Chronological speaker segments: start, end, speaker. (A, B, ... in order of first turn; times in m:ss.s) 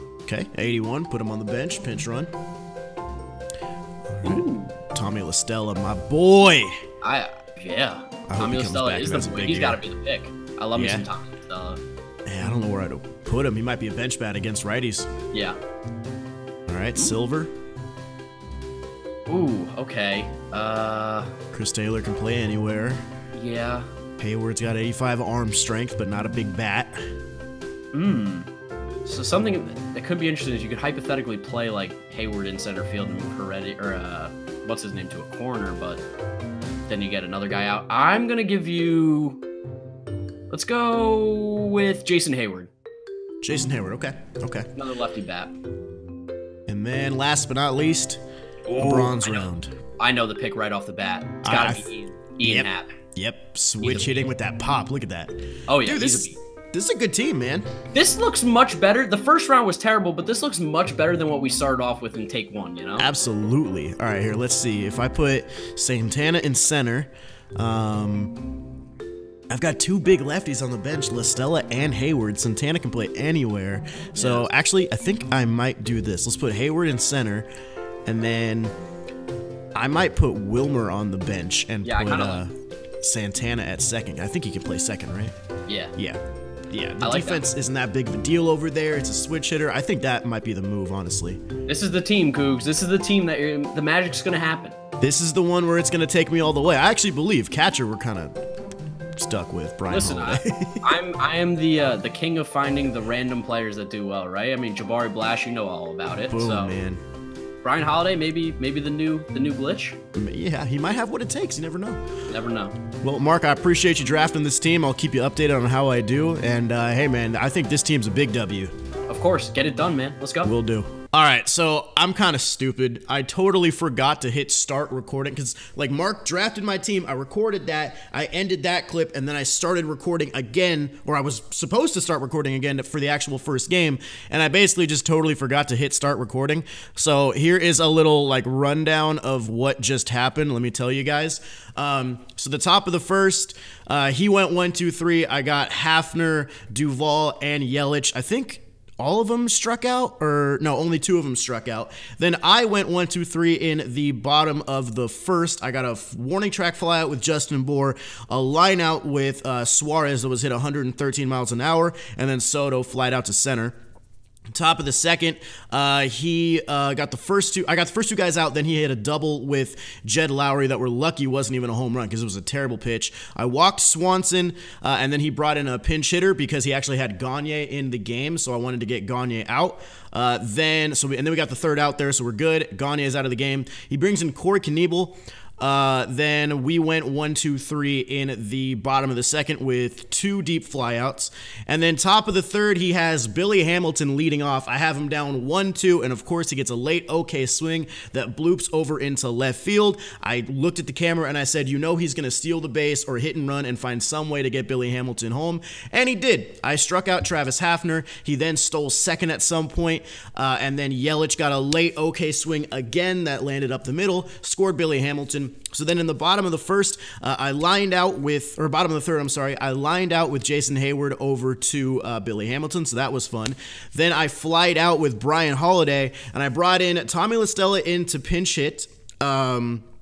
0:00.3-0:02.3 A
0:04.1-0:06.8 A
0:04.2-0:04.7 B
0:07.0-0:11.8 B
0:08.3-0:09.8 A
0:10.7-0:11.1 A
0:12.2-0:15.1 A
0:15.3-0:15.6 B
0:16.7-0:17.5 A
0:19.3-0:21.3 B
0:21.5-0:23.0 A
0:23.3-0:23.9 B
0:24.2-0:27.0 A
0:27.9-0:28.5 B
0:29.0-0:36.0 B
0:36.9-0:39.4 B
0:40.5-0:42.7 B
0:43.4-0:44.7 A
0:44.8-0:45.5 B
0:46.7-0:48.2 A
0:48.7-0:49.5 B
0:48.7-0:49.7 A
0:50.0-0:52.9 B
0:51.4-0:51.9 A
0:52.4-0:57.7 A
0:53.8-0:54.3 B
0:55.7-0:56.4 B
0:57.9-1:03.1 B
1:03.0-1:08.4 A
1:09.5-1:17.5 A
1:14.1-1:14.5 B
1:18.0-1:18.7 A
1:19.7-1:25.3 A
1:21.8-1:22.4 B
1:25.7-1:25.9 B
1:25.9-1:26.2 A
1:26.7-1:31.4 A
1:27.0-1:27.5 B
1:31.6-1:34.8 B
1:35.0-1:38.3 A
1:39.2-1:40.8 A
1:39.9-1:46.7 B
1:46.3-1:47.0 A
1:47.6-1:50.0 B
1:50.1-1:52.0 A
1:52.3-1:52.8 B
1:53.0-1:58.7 A
1:59.1-2:00.5 B
2:00.4-2:43.8 A
2:44.5-3:49.8 A